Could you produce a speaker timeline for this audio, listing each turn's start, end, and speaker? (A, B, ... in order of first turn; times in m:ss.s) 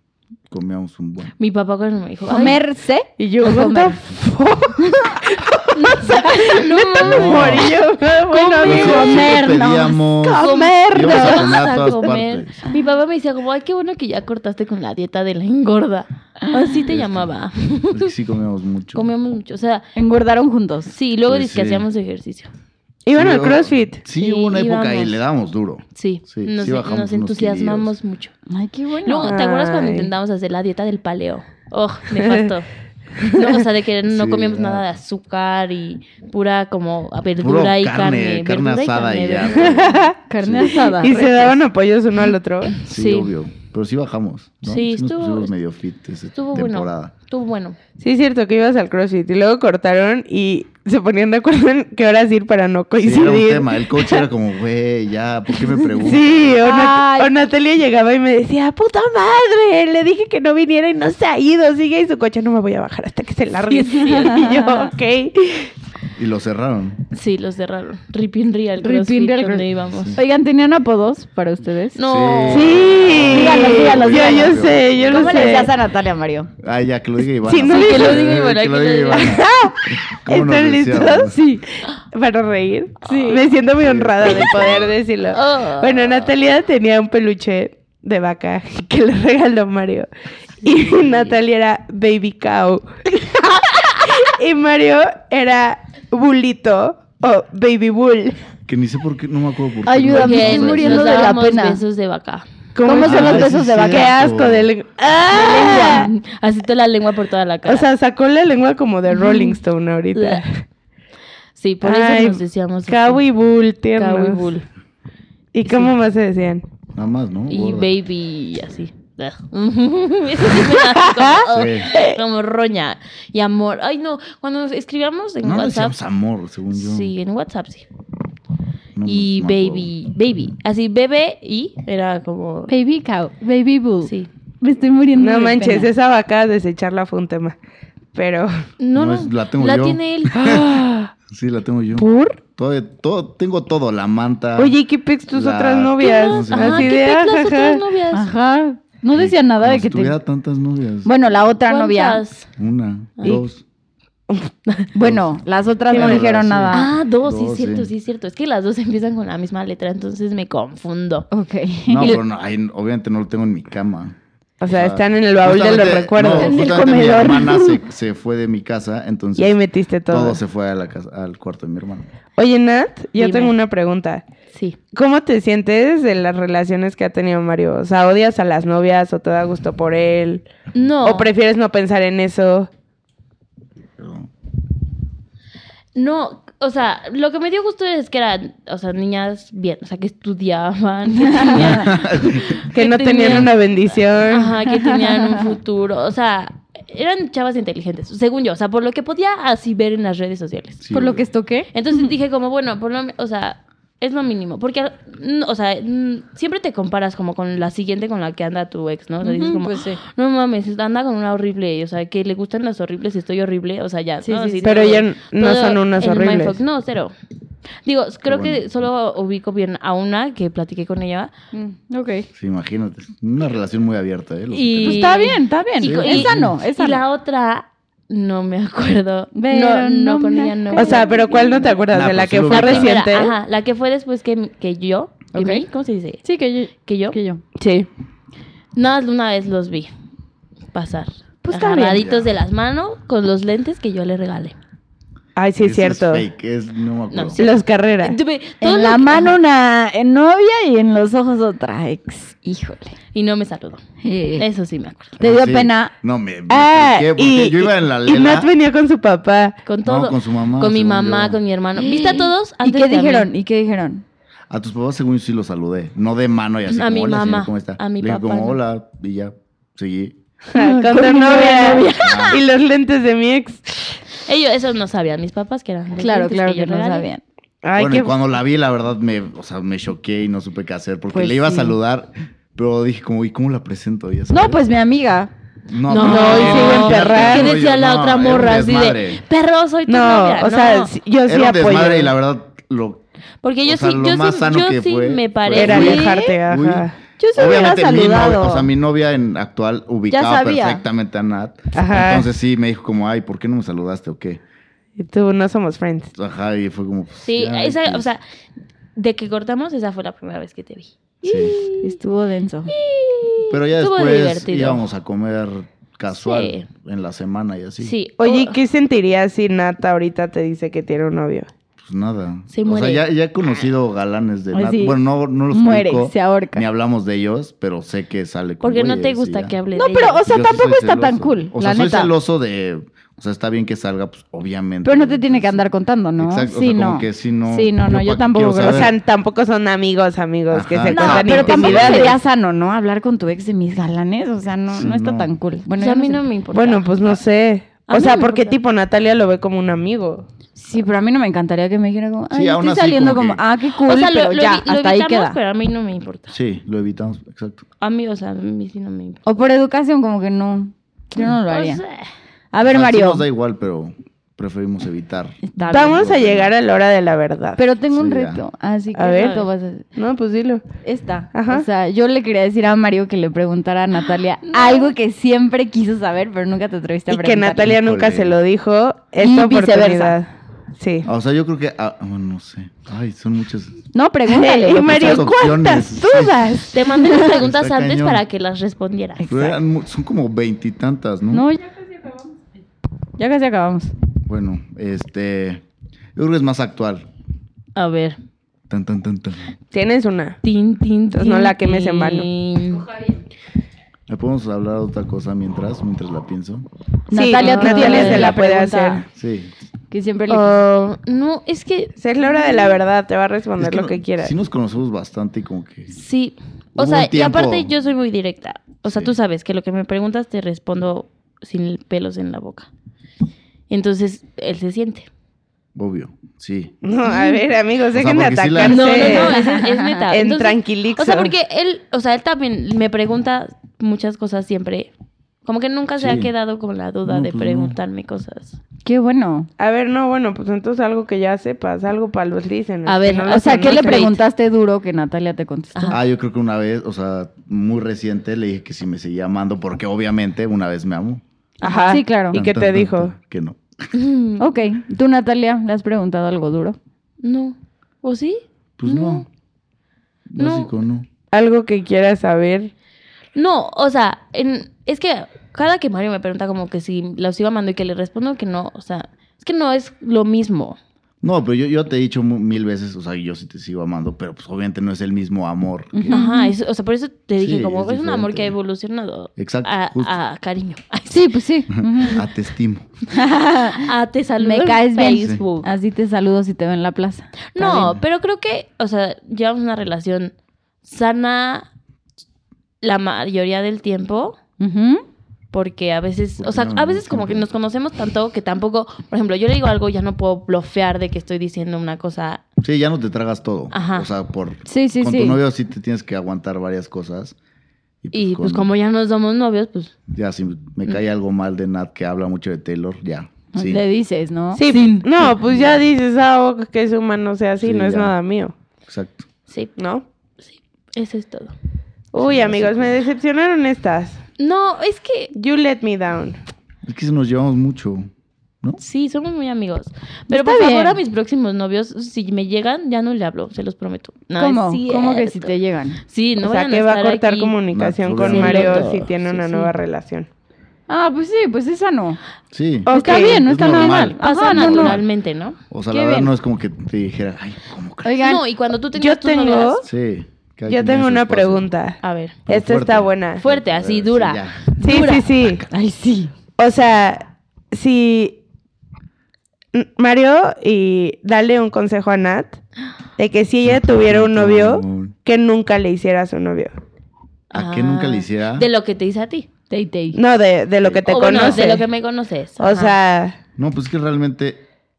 0:00.5-0:01.3 A
0:01.4-0:02.6 B
0:02.3-0:04.0 C
0:03.2-0:09.4 D
0:04.8-0:05.1 C
0:05.7-0:07.8 B
0:07.0-0:07.8 A
0:08.3-0:09.6 B
0:08.3-0:10.9 C
0:08.6-0:12.6 A
0:10.2-0:11.5 D
0:10.4-0:18.1 B
0:16.9-0:17.3 A
0:17.9-0:19.1 A
0:18.9-0:19.9 B
0:19.9-0:20.9 C
0:20.9-0:22.5 B
0:21.3-0:21.8 A
0:23.0-0:24.0 D
0:23.1-0:27.9 A
0:24.2-0:25.2 B
0:25.9-0:28.3 B
0:28.5-0:29.4 C
0:29.0-0:32.7 B
0:29.2-0:30.1 D
0:32.2-0:32.5 D
0:33.2-0:39.8 B
0:34.1-0:34.9 A
0:37.4-0:40.9 A
0:39.6-0:40.1 D
0:40.3-0:41.3 C
0:40.8-0:42.7 D
0:41.1-0:41.5 B
0:42.8-0:43.3 B
0:42.8-0:47.1 A
0:44.6-0:45.5 B
0:46.3-0:47.8 B
0:48.0-0:54.3 D
0:53.0-0:56.6 A
0:56.0-1:05.7 D
0:56.6-0:57.3 C
1:03.7-1:04.9 B
1:04.2-1:04.5 C
1:06.2-1:07.0 A
1:07.1-1:10.2 B
1:08.8-1:12.0 C
1:09.9-1:10.2 A
1:11.9-1:13.1 B
1:12.0-1:15.5 A
1:12.5-1:15.7 D
1:13.2-1:16.5 C
1:16.6-1:21.4 A
1:17.4-1:18.2 D
1:17.6-1:19.4 B
1:19.2-1:30.1 D
1:23.0-1:23.4 C
1:23.1-1:23.4 B
1:23.8-1:25.0 A
1:25.3-1:26.0 B
1:30.6-1:38.4 D
1:38.7-1:41.3 A
1:39.8-1:41.8 C
1:40.1-1:42.4 B
1:42.7-1:46.1 D
1:42.8-1:44.1 C
1:42.9-1:44.7 A
1:45.3-1:47.9 B
1:45.3-1:46.1 C
1:47.6-1:50.6 D
1:49.2-1:49.6 B
1:50.1-1:50.4 B
1:51.6-1:53.2 B
1:51.8-1:54.5 D
1:54.0-1:54.6 B
1:55.5-1:56.6 D
1:55.6-1:56.0 B
1:56.9-1:57.9 A
1:57.5-2:06.0 B
2:01.0-2:01.4 D
2:01.4-2:01.9 A
2:05.4-2:07.1 A
2:06.7-2:07.8 B
2:09.0-2:09.9 A
2:09.0-2:12.7 B
2:12.7-2:15.9 C
2:14.0-2:14.3 B
2:15.2-2:17.6 D
2:18.1-2:18.6 D
2:18.8-2:20.6 B
2:18.9-2:24.7 A
2:20.4-2:21.1 D
2:22.0-2:22.4 D
2:24.6-2:27.8 D
2:25.3-2:27.0 A
2:26.0-2:28.3 B
2:28.1-2:30.2 C
2:29.2-2:31.1 A
2:31.0-2:32.2 C
2:31.7-2:32.5 B
2:32.6-2:33.6 A
2:34.9-2:36.9 C
2:35.0-2:35.3 A
2:35.8-2:37.9 A
2:35.9-2:36.2 D
2:36.7-2:41.3 B
2:41.3-2:42.2 C
2:41.9-2:44.2 A
2:44.6-2:47.4 D
2:44.7-2:49.6 A
2:46.2-2:47.8 C
2:49.4-2:50.4 D
2:50.1-2:52.1 A
2:52.4-2:54.2 D
2:53.2-2:53.5 B
2:54.9-3:00.5 D
3:00.7-3:01.3 B
3:01.0-3:02.7 D
3:04.0-3:04.3 A
3:05.9-3:13.5 B
3:11.2-3:11.8 C
3:11.6-3:12.6 A
3:12.7-3:14.5 D
3:14.3-3:20.8 B
3:14.7-3:15.4 C
3:20.8-3:21.3 A
3:20.9-3:22.1 C
3:21.7-3:37.1 B
3:29.2-3:30.0 C
3:34.2-3:34.9 C
3:34.6-3:36.6 D
3:37.8-3:41.3 B
3:38.2-3:38.6 A
3:41.5-3:42.3 C
3:42.3-3:45.1 A
3:44.5-3:51.8 B
3:44.8-3:47.0 C
3:45.8-3:46.5 A
3:49.3-3:51.5 C
3:50.7-3:53.3 D
3:51.9-3:53.0 A
3:52.4-3:57.2 B
3:55.3-3:55.6 C
3:56.2-3:57.4 C
3:57.6-3:57.9 D
3:58.7-3:59.9 B
4:00.7-4:04.6 B
4:01.4-4:02.0 C
4:01.9-4:02.3 A
4:05.4-4:06.2 D
4:05.6-4:07.4 A
4:07.1-4:09.3 B
4:07.4-4:08.2 D
4:08.6-4:13.0 C
4:13.1-4:13.8 B
4:14.0-4:14.4 C
4:14.4-4:15.1 B
4:15.2-4:18.5 A
4:15.2-4:15.9 C
4:16.5-4:19.6 D
4:19.6-4:23.3 B
4:19.8-4:21.4 A
4:21.8-4:24.0 C
4:24.5-4:30.2 A
4:26.7-4:28.6 B
4:30.5-4:34.0 D
4:30.5-4:32.4 C
4:32.0-4:32.4 A
4:34.2-4:37.1 B
4:36.0-4:37.2 C
4:37.6-4:38.1 D
4:37.7-4:44.6 A
4:41.1-4:41.8 C
4:44.3-4:45.3 C
4:45.7-4:49.2 A
4:45.9-4:50.9 B
4:46.0-4:47.5 D
4:46.4-4:46.7 C
4:49.9-4:52.1 D
4:51.2-4:53.0 A
4:53.4-4:56.4 B
4:53.6-5:04.4 A
4:55.5-4:58.6 D
4:57.2-4:58.5 C
5:00.1-5:00.8 C
5:01.7-5:02.3 D
5:05.0-5:06.1 D
5:06.1-5:08.0 A
5:07.2-5:08.2 B
5:09.0-5:12.0 B
5:11.2-5:11.6 A
5:11.8-5:12.7 C
5:12.7-5:14.8 B
5:13.5-5:17.9 A
5:16.2-5:16.7 B
5:17.8-5:18.6 B
5:18.2-5:21.5 D
5:21.8-5:29.5 A
5:22.5-5:23.6 B
5:24.5-5:25.0 C
5:25.5-5:26.6 C
5:28.6-5:30.3 B
5:29.7-5:32.1 C
5:30.2-5:35.6 A
5:34.8-5:38.9 C
5:36.2-5:38.9 A
5:38.6-5:42.2 D
5:40.5-5:42.2 A
5:40.9-5:46.2 C
5:44.7-5:45.3 A
5:45.8-5:46.9 B
5:46.5-5:50.2 D
5:47.9-5:48.6 B
5:50.6-5:55.4 C
5:52.3-5:53.4 A
5:53.8-5:56.3 B
5:56.3-5:57.6 A
5:57.8-5:59.2 B
5:59.2-6:01.8 C
6:01.2-6:02.1 B
6:02.5-6:03.2 C
6:02.6-6:06.5 A
6:05.5-6:05.9 C
6:05.6-6:06.0 B
6:05.7-6:07.6 D
6:07.6-6:09.5 C
6:07.9-6:08.4 A
6:08.9-6:10.6 D
6:09.1-6:09.7 B
6:10.8-6:17.7 C
6:11.3-6:11.7 D
6:14.4-6:14.9 B
6:17.1-6:21.1 D
6:17.6-6:18.4 A
6:19.2-6:20.2 C
6:21.0-6:23.8 A
6:23.9-6:25.3 C
6:24.3-6:26.8 D
6:24.8-6:26.6 A
6:26.7-6:29.5 B
6:27.1-6:28.2 A
6:29.2-6:31.5 A
6:31.3-6:32.2 C
6:33.2-6:33.9 C
6:34.2-6:35.6 A
6:36.1-6:37.1 A
6:37.8-6:38.2 B
6:38.7-6:39.6 A
6:39.7-6:40.4 D
6:40.4-6:42.9 B
6:41.1-6:42.3 D
6:44.1-6:46.7 A
6:47.1-6:49.0 C
6:47.1-6:49.0 D
6:47.4-6:48.5 B
6:49.1-6:49.5 A
6:49.9-6:50.6 C
6:50.3-6:52.8 B
6:52.0-6:54.3 D
6:53.6-6:55.9 A
6:55.9-7:02.7 B
6:56.8-6:57.7 A
6:58.9-6:59.1 A
7:03.7-7:05.1 B
7:05.7-7:06.7 A
7:06.8-7:09.4 D
7:07.9-7:09.2 A
7:08.6-7:14.9 B
7:09.2-7:10.0 C
7:10.1-7:11.3 D
7:15.4-7:18.6 B
7:16.0-7:16.3 A
7:17.0-7:17.8 A
7:18.8-7:19.5 C
7:19.6-7:24.1 D
7:22.8-7:24.2 B
7:23.2-7:26.0 C
7:25.9-7:31.2 A
7:31.6-7:32.0 B
7:31.6-7:33.1 D
7:31.9-7:32.4 C
7:32.3-7:33.9 A
7:33.9-7:34.4 B
7:34.4-7:36.8 C
7:37.2-7:39.2 B
7:38.8-7:39.2 A
7:40.3-7:41.0 A
7:40.4-7:40.7 B
7:41.3-7:42.7 D
7:43.3-7:50.8 B
7:51.2-7:56.1 A
7:55.9-7:56.5 C
7:56.1-8:01.3 B
7:57.4-7:58.5 A
7:59.4-8:00.1 A
8:01.1-8:02.2 C
8:01.7-8:02.9 A
8:03.1-8:03.9 C
8:03.8-8:05.7 B
8:04.4-8:07.4 C
8:05.2-8:05.4 A
8:07.5-8:11.7 B
8:07.6-8:08.0 A
8:12.8-8:14.4 B
8:14.6-8:15.0 C
8:15.5-8:22.4 B
8:16.4-8:17.5 A
8:22.6-8:27.4 A
8:23.7-8:24.1 B
8:24.6-8:25.4 C
8:28.0-8:28.7 A
8:28.1-8:30.0 B
8:30.1-8:33.8 A
8:33.5-8:35.0 C
8:34.5-8:38.5 D
8:35.2-8:35.8 A
8:37.6-8:38.1 A
8:38.9-8:39.3 A
8:39.5-8:39.7 B
8:39.8-8:40.0 D
8:40.5-8:41.5 B
8:42.1-8:44.2 D
8:42.2-8:43.0 A
8:44.4-8:45.3 B
8:45.3-8:46.4 D
8:46.8-8:48.1 A
8:48.8-8:55.5 B
8:50.3-8:51.0 C
8:54.4-8:56.0 C
8:56.1-8:57.6 B
8:56.4-9:00.3 D
8:57.7-8:59.0 A
8:58.2-8:59.7 B
9:00.9-9:02.2 C
9:02.5-9:05.0 A
9:02.8-9:03.4 D
9:02.9-9:05.0 C
9:03.6-9:05.6 B
9:05.7-9:08.2 A
9:05.9-9:06.3 C
9:08.0-9:08.4 C
9:08.2-9:09.8 B
9:09.0-9:09.9 D
9:09.8-9:11.7 A
9:10.7-9:13.4 D
9:12.0-9:12.4 B
9:12.5-9:14.7 A
9:13.4-9:15.3 B
9:14.8-9:15.6 D
9:14.9-9:16.3 C
9:16.6-9:18.4 D
9:19.7-9:22.6 D
9:23.2-9:26.7 D
9:23.6-9:25.2 A
9:27.5-9:29.5 B
9:27.5-9:28.7 A
9:29.7-9:30.2 C
9:30.1-9:31.8 D
9:30.8-9:31.8 A
9:31.0-9:33.0 B
9:32.6-9:33.3 D
9:33.6-9:34.6 A